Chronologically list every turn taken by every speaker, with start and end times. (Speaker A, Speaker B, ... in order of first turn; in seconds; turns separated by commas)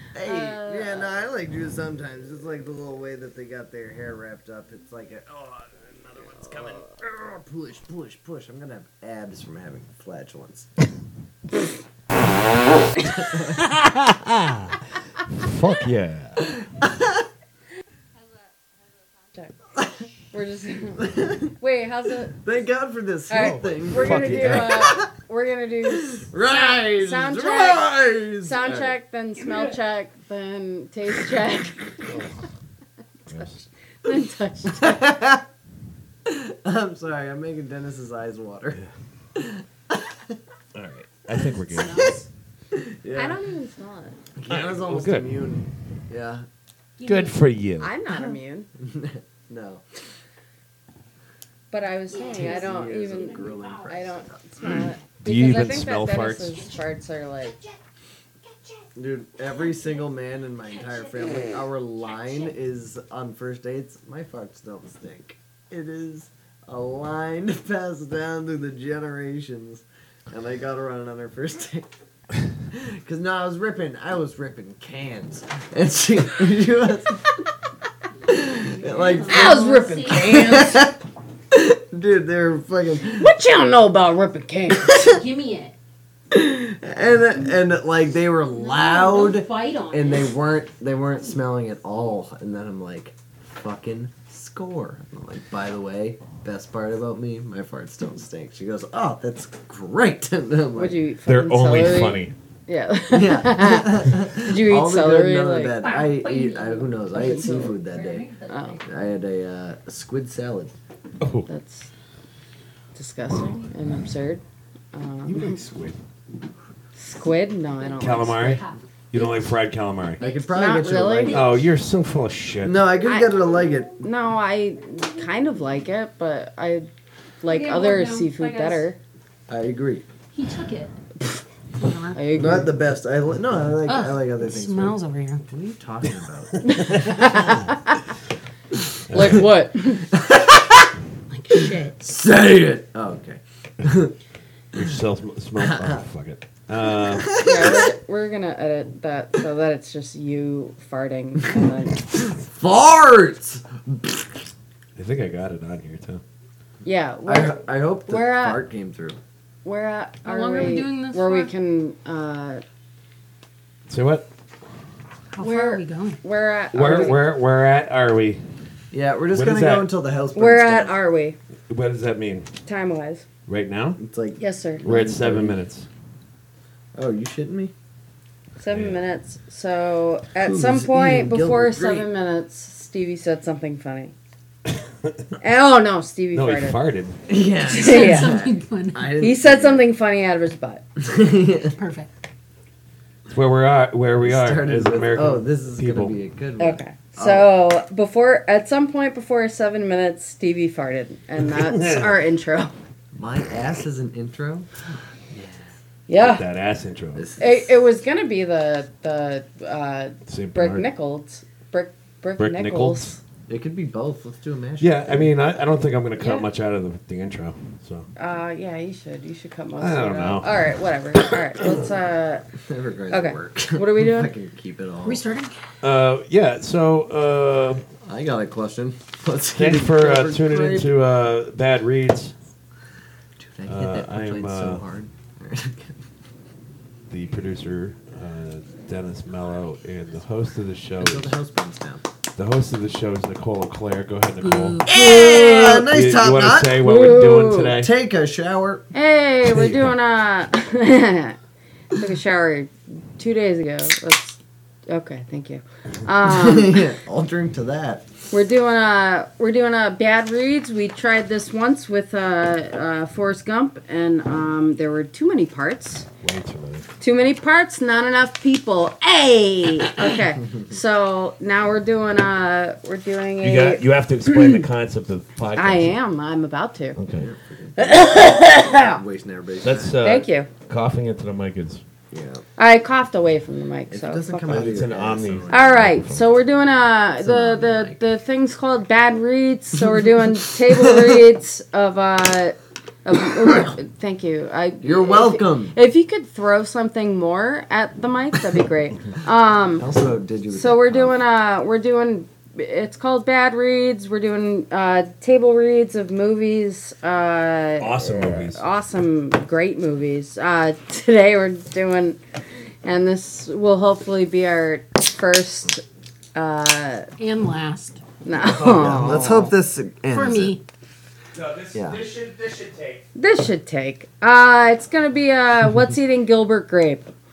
Speaker A: 0.1-10.7, Speaker B: 0.2-1.1, Speaker A: 13.1-13.6, Speaker C: 13.8-16.4, Speaker A: 16.4-17.3, Speaker B: 20.3-22.4, Speaker A: 21.0-21.5, Speaker A: 22.4-25.1, Speaker B: 23.3-32.2, Speaker C: 23.3-25.0, Speaker A: 26.0-29.0, Speaker C: 32.0-32.4, Speaker C: 33.3-33.6, Speaker B: 33.3-35.2, Speaker A: 34.8-35.4, Speaker A: 36.3-38.8, Speaker A: 39.4-40.4, Speaker C: 40.8-42.2, Speaker D: 41.6-42.2, Speaker A: 41.8-42.1, Speaker A: 42.7-43.4, Speaker B: 43.2-44.2, Speaker A: 44.4-46.5, Speaker C: 44.5-45.6, Speaker D: 47.0-47.4, Speaker C: 47.0-47.9, Speaker B: 47.8-48.7, Speaker A: 48.1-49.8, Speaker B: 51.7-57.6, Speaker D: 52.3-52.6, Speaker A: 52.3-54.8, Speaker C: 55.2-56.7, Speaker A: 59.0-71.9, Speaker A: 72.7-77.2, Speaker A: 78.3-81.0, Speaker D: 78.6-80.8, Speaker B: 79.3-80.8, Speaker A: 81.5-83.3, Speaker B: 83.1-85.0, Speaker A: 84.8-85.2, Speaker D: 84.9-85.8, Speaker A: 86.3-101.0, Speaker D: 88.5-90.3, Speaker B: 100.8-105.8, Speaker C: 101.3-102.3, Speaker A: 103.1-108.3, Speaker D: 105.8-108.8, Speaker B: 107.1-107.8, Speaker B: 108.5-108.8, Speaker A: 108.9-110.7, Speaker C: 111.2-111.5, Speaker B: 111.5-111.9, Speaker B: 113.0-115.6, Speaker C: 115.3-116.0, Speaker B: 117.0-118.6, Speaker D: 117.8-118.8, Speaker C: 118.0-120.2, Speaker A: 120.2-121.5, Speaker B: 120.5-121.5, Speaker C: 121.3-122.8, Speaker A: 122.6-124.0, Speaker B: 123.0-126.9, Speaker B: 127.4-129.0, Speaker D: 127.5-128.8, Speaker A: 129.5-130.1, Speaker D: 130.3-130.9, Speaker D: 131.8-132.2, Speaker B: 132.1-132.7, Speaker A: 132.3-137.4, Speaker D: 133.9-135.4, Speaker B: 136.7-138.0, Speaker C: 139.1-139.5, Speaker B: 139.1-140.1, Speaker A: 140.1-140.9, Speaker D: 141.3-142.1, Speaker A: 142.0-144.1, Speaker C: 144.7-147.4, Speaker A: 145.6-146.0, Speaker A: 147.0-147.9, Speaker B: 147.4-152.2, Speaker A: 152.1-154.4, Speaker C: 155.0-156.2, Speaker B: 156.8-158.6, Speaker A: 157.3-159.2, Speaker B: 159.7-162.6, Speaker D: 160.2-161.5, Speaker C: 163.9-164.3, Speaker D: 165.3-166.2, Speaker B: 165.4-167.3, Speaker C: 166.7-168.4, Speaker A: 168.9-171.0, Speaker C: 169.3-169.9, Speaker B: 170.3-171.4, Speaker C: 171.7-172.5, Speaker B: 172.7-173.2, Speaker C: 173.5-174.0, Speaker A: 174.0-175.6, Speaker B: 174.4-174.8, Speaker C: 174.8-175.9, Speaker A: 176.9-177.7, Speaker B: 178.6-184.1, Speaker C: 178.7-179.0, Speaker A: 180.4-182.1, Speaker C: 184.7-185.3, Speaker B: 185.4-186.8, Speaker C: 186.3-187.2, Speaker A: 187.3-189.9, Speaker D: 187.7-189.1, Speaker B: 187.7-188.4, Speaker B: 189.2-190.8, Speaker A: 191.0-191.8, Speaker D: 191.7-192.1, Speaker C: 193.3-196.2, Speaker A: 194.2-197.5, Speaker B: 196.6-202.8, Speaker C: 201.4-202.1, Speaker A: 203.2-204.7, Speaker B: 206.1-206.4, Speaker C: 206.2-207.3, Speaker A: 207.2-207.7, Speaker B: 207.4-213.2, Speaker C: 210.3-210.9, Speaker C: 212.4-213.2, Speaker A: 213.5-215.3, Speaker C: 214.8-218.1, Speaker B: 218.2-222.4, Speaker C: 219.8-221.8, Speaker A: 222.7-225.2, Speaker B: 223.1-224.3, Speaker D: 225.0-225.6, Speaker C: 225.8-227.8, Speaker A: 228.1-230.9, Speaker C: 229.6-232.3, Speaker A: 233.4-236.0, Speaker C: 233.7-234.8, Speaker C: 237.1-241.3, Speaker A: 241.0-242.1, Speaker C: 242.3-247.9, Speaker D: 244.4-245.2, Speaker A: 244.9-246.8, Speaker B: 246.8-247.8, Speaker A: 247.7-248.9, Speaker B: 248.9-251.4, Speaker C: 249.4-249.9, Speaker B: 251.9-256.8, Speaker A: 256.2-258.1, Speaker B: 258.3-266.1, Speaker C: 266.2-266.9, Speaker B: 267.0-274.6, Speaker C: 273.4-275.9, Speaker B: 275.6-277.0, Speaker C: 277.0-277.3, Speaker A: 277.2-278.0, Speaker B: 277.8-279.0, Speaker A: 278.6-280.0, Speaker C: 279.6-281.8, Speaker B: 280.0-280.5, Speaker A: 282.1-282.4, Speaker B: 282.6-284.6, Speaker A: 283.9-285.9, Speaker C: 284.5-286.2, Speaker B: 285.5-299.9, Speaker A: 287.2-288.0, Speaker A: 294.8-295.7, Speaker A: 299.8-301.1, Speaker B: 300.5-312.2, Speaker C: 307.8-308.6, Speaker B: 312.8-315.8, Speaker B: 316.4-317.1, Speaker D: 317.2-318.0, Speaker B: 318.2-319.5, Speaker C: 318.5-319.3, Speaker A: 318.6-320.6, Speaker D: 320.1-320.6, Speaker C: 321.3-323.0, Speaker A: 321.7-322.0, Speaker B: 323.1-327.1